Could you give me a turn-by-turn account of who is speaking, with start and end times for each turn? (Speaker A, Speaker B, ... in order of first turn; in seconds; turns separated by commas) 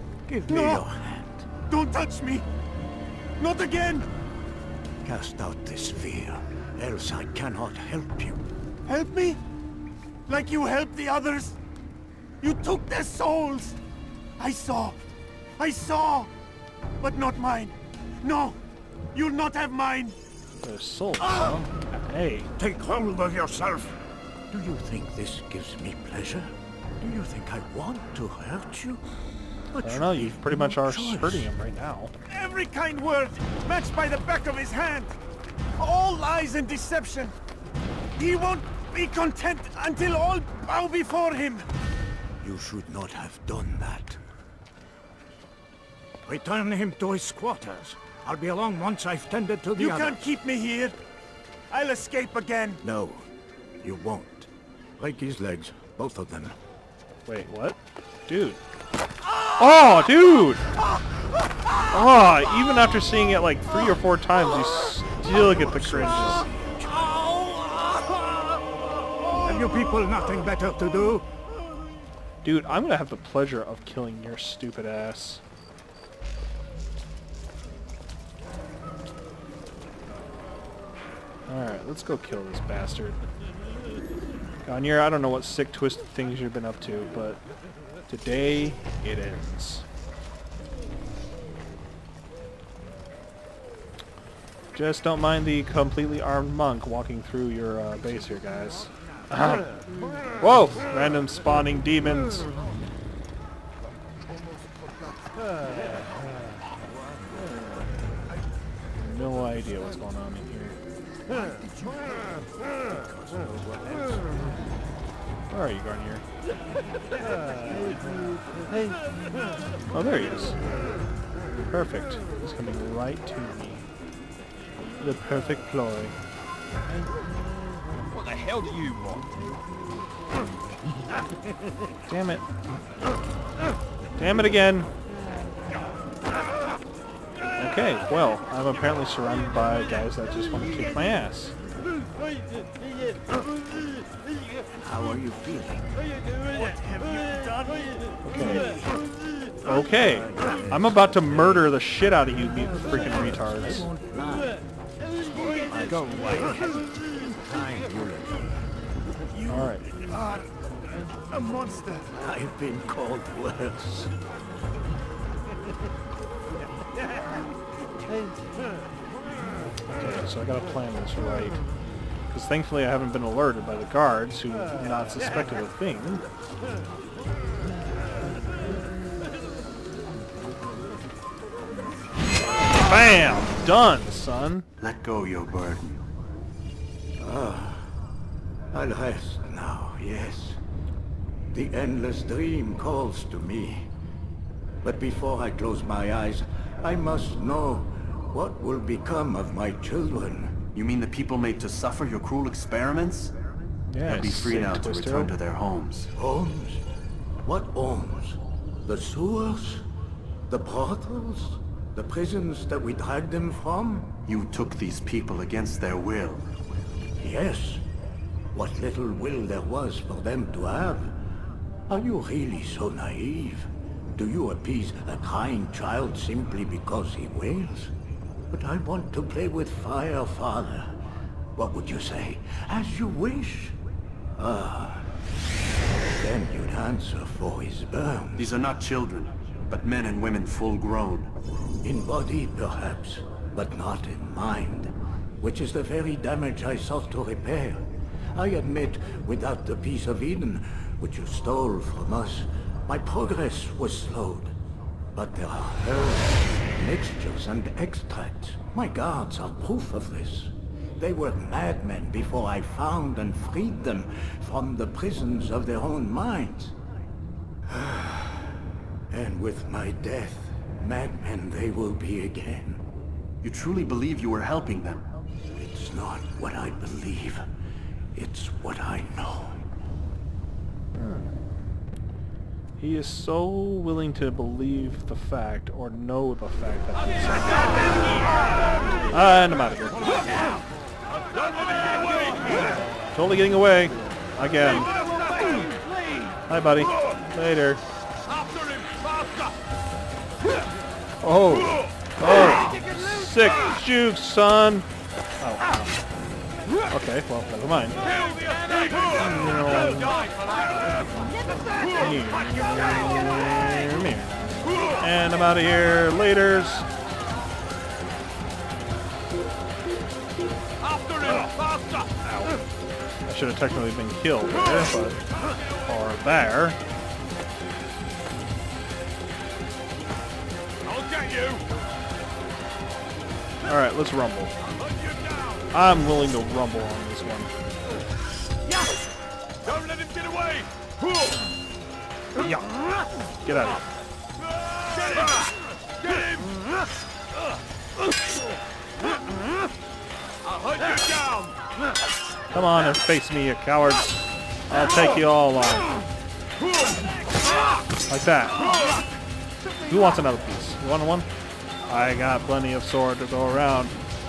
Speaker A: 0.3-1.5, Speaker B: 0.5-0.8, Speaker B: 1.7-2.5, Speaker B: 3.4-4.1, Speaker A: 5.0-8.4, Speaker B: 8.9-9.4, Speaker B: 10.3-11.6, Speaker B: 12.4-13.8, Speaker B: 14.4-15.0, Speaker B: 15.6-16.3, Speaker B: 17.0-18.6, Speaker B: 19.1-20.2, Speaker C: 20.6-22.5, Speaker A: 22.6-29.0, Speaker A: 29.7-31.5, Speaker C: 29.8-32.1, Speaker B: 32.3-35.2, Speaker B: 35.8-37.4, Speaker B: 38.2-41.7, Speaker A: 42.4-44.2, Speaker A: 46.3-50.2, Speaker B: 49.8-51.0, Speaker B: 51.7-52.8, Speaker A: 52.8-53.3, Speaker A: 53.8-56.6, Speaker C: 57.3-58.6, Speaker C: 59.6-60.7, Speaker C: 61.9-66.5, Speaker A: 65.2-67.4, Speaker A: 69.3-71.3, Speaker C: 72.4-75.4, Speaker C: 81.5-83.2, Speaker C: 84.7-87.4, Speaker C: 88.1-89.8, Speaker C: 94.7-99.7, Speaker C: 100.4-102.5, Speaker C: 109.0-110.8, Speaker A: 111.5-112.2, Speaker A: 112.7-114.4, Speaker C: 115.5-116.2, Speaker C: 119.9-120.6, Speaker C: 121.7-123.9, Speaker C: 125.0-126.2, Speaker D: 128.1-129.3, Speaker C: 132.1-132.5, Speaker C: 134.2-134.9, Speaker C: 137.6-141.6, Speaker A: 144.8-145.9, Speaker B: 146.5-147.9, Speaker C: 148.2-148.8, Speaker A: 148.4-148.9, Speaker C: 149.7-153.9, Speaker A: 149.7-151.7, Speaker A: 152.4-154.6, Speaker A: 155.1-158.7, Speaker D: 155.9-156.7, Speaker B: 159.3-160.4, Speaker C: 159.5-159.8, Speaker B: 161.3-162.1, Speaker A: 162.1-164.1, Speaker C: 169.9-171.6, Speaker C: 172.3-176.3, Speaker C: 182.8-184.7, Speaker E: 184.8-186.0, Speaker A: 187.2-187.9, Speaker A: 188.7-190.6, Speaker A: 191.5-193.9, Speaker A: 194.8-200.6, Speaker E: 200.7-203.3, Speaker C: 203.9-205.4, Speaker E: 204.1-206.1, Speaker A: 206.2-206.8, Speaker A: 207.4-209.9, Speaker A: 210.5-214.2, Speaker E: 214.3-216.5, Speaker A: 217.2-217.8, Speaker A: 218.5-221.1, Speaker A: 221.9-227.9, Speaker A: 228.5-230.9, Speaker A: 231.6-233.8, Speaker A: 234.4-235.1, Speaker A: 236.2-238.6, Speaker E: 238.4-241.3, Speaker A: 241.8-254.5, Speaker A: 255.2-266.7, Speaker A: 267.7-272.8, Speaker E: 273.4-275.0, Speaker A: 275.5-277.4, Speaker A: 278.1-279.6, Speaker C: 280.9-281.3, Speaker C: 282.8-288.0, Speaker C: 289.0-290.2, Speaker C: 293.1-294.9, Speaker C: 296.5-297.8, Speaker D: 298.4-299.5, Speaker C: 301.2-304.9, Speaker C: 305.4-305.9, Speaker C: 306.9-308.0, Speaker C: 309.1-310.2, Speaker C: 311.9-316.9, Speaker D: 320.9-321.7, Speaker C: 322.2-322.6, Speaker C: 323.3-325.2, Speaker C: 325.8-326.8, Speaker D: 331.1-331.6, Speaker C: 333.6-334.5, Speaker C: 335.7-337.5, Speaker F: 339.7-340.7, Speaker C: 343.4-343.9, Speaker F: 344.9-345.2, Speaker F: 346.1-346.4, Speaker F: 350.7-351.4, Speaker C: 352.5-355.9, Speaker C: 358.1-358.8, Speaker C: 359.8-361.3, Speaker C: 361.9-364.0